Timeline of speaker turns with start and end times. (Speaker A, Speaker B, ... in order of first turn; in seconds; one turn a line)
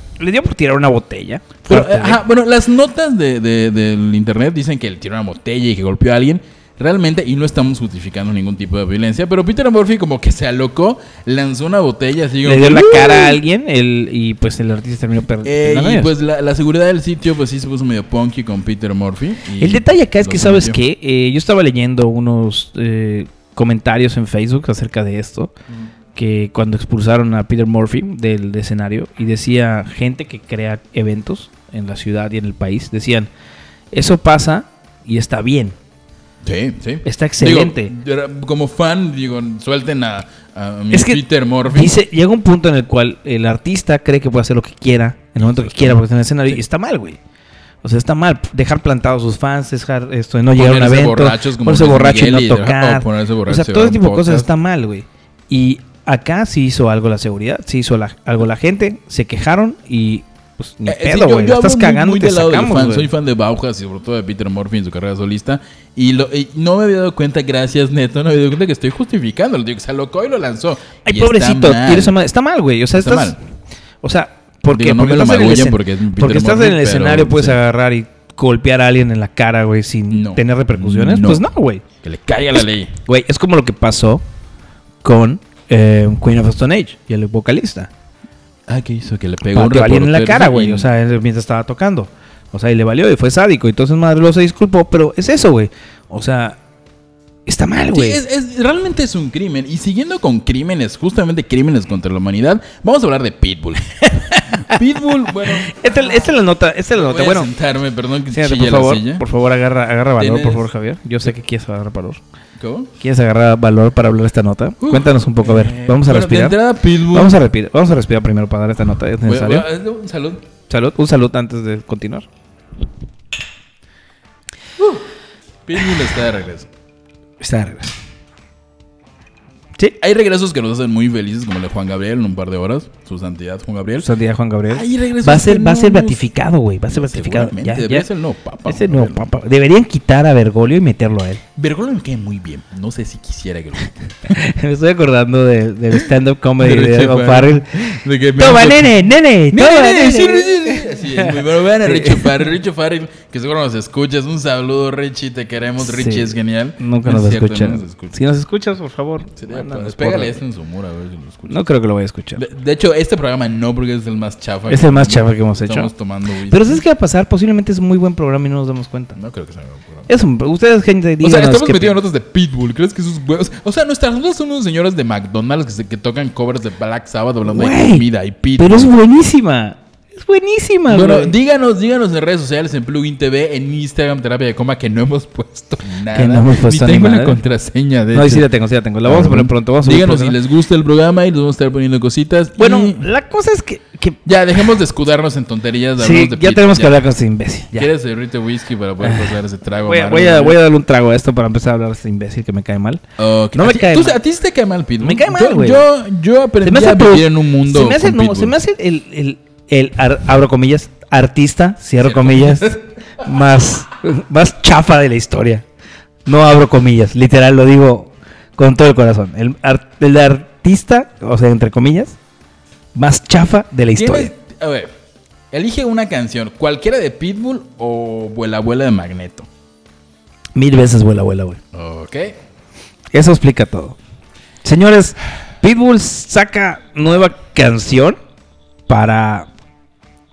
Speaker A: 0.2-2.2
Speaker B: 1.6-13.4
Speaker A: 12.4-16.1
Speaker B: 15.4-20.8
Speaker A: 19.6-25.5
Speaker A: 26.1-33.3
Speaker A: 33.9-35.8
Speaker B: 36.4-41.9
Speaker A: 37.0-37.9
Speaker A: 40.9-47.2
Speaker B: 45.4-46.6
Speaker A: 47.8-63.1
Speaker B: 50.5-54.5
Speaker B: 60.8-72.2
Speaker A: 71.0-73.3
Speaker B: 72.9-73.4
Speaker A: 74.0-81.8
Speaker B: 74.7-77.6
Speaker B: 80.1-81.4
Speaker B: 82.0-82.9
Speaker A: 83.0-84.2
Speaker A: 85.0-87.9
Speaker B: 88.7-90.9
Speaker A: 89.5-96.6
Speaker A: 97.5-98.2
Speaker B: 97.9-106.3
Speaker A: 104.2-104.8
Speaker A: 105.4-107.5
Speaker B: 106.9-109.2
Speaker A: 108.3-112.2
Speaker B: 110.2-110.7
Speaker B: 112.6-112.9
Speaker A: 113.0-116.6
Speaker B: 114.8-117.4
Speaker A: 117.1-119.7
Speaker B: 119.2-120.4
Speaker A: 120.7-122.2
Speaker B: 124.8-125.0
Speaker B: 125.7-126.7
Speaker A: 127.4-127.9
Speaker B: 130.0-134.1
Speaker A: 134.0-138.1
Speaker B: 134.7-136.3
Speaker B: 136.9-139.2
Speaker A: 138.7-141.4
Speaker B: 141.6-144.3
Speaker A: 144.3-152.4
Speaker B: 146.6-158.2
Speaker A: 155.8-160.4
Speaker B: 159.4-161.6
Speaker A: 161.5-162.4
Speaker B: 162.3-166.8
Speaker A: 164.7-165.9
Speaker A: 166.5-169.2
Speaker B: 169.2-170.1
Speaker A: 170.1-172.0
Speaker B: 171.2-178.9
Speaker A: 177.5-178.1
Speaker A: 178.6-181.3
Speaker B: 180.9-188.5
Speaker A: 186.1-187.4
Speaker A: 188.1-190.4
Speaker B: 189.0-193.1
Speaker A: 192.6-194.2
Speaker B: 194.2-197.0
Speaker A: 196.0-197.9
Speaker B: 197.7-200.6
Speaker A: 199.0-203.0
Speaker B: 203.2-208.6
Speaker A: 203.5-204.2
Speaker A: 205.0-205.8
Speaker A: 206.6-215.6
Speaker B: 212.0-212.7
Speaker A: 216.2-222.2
Speaker A: 222.9-224.3
Speaker B: 223.9-224.9
Speaker B: 225.5-229.5
Speaker A: 230.5-231.6
Speaker B: 231.7-232.4
Speaker A: 233.1-234.0
Speaker A: 234.6-238.2
Speaker A: 238.9-239.5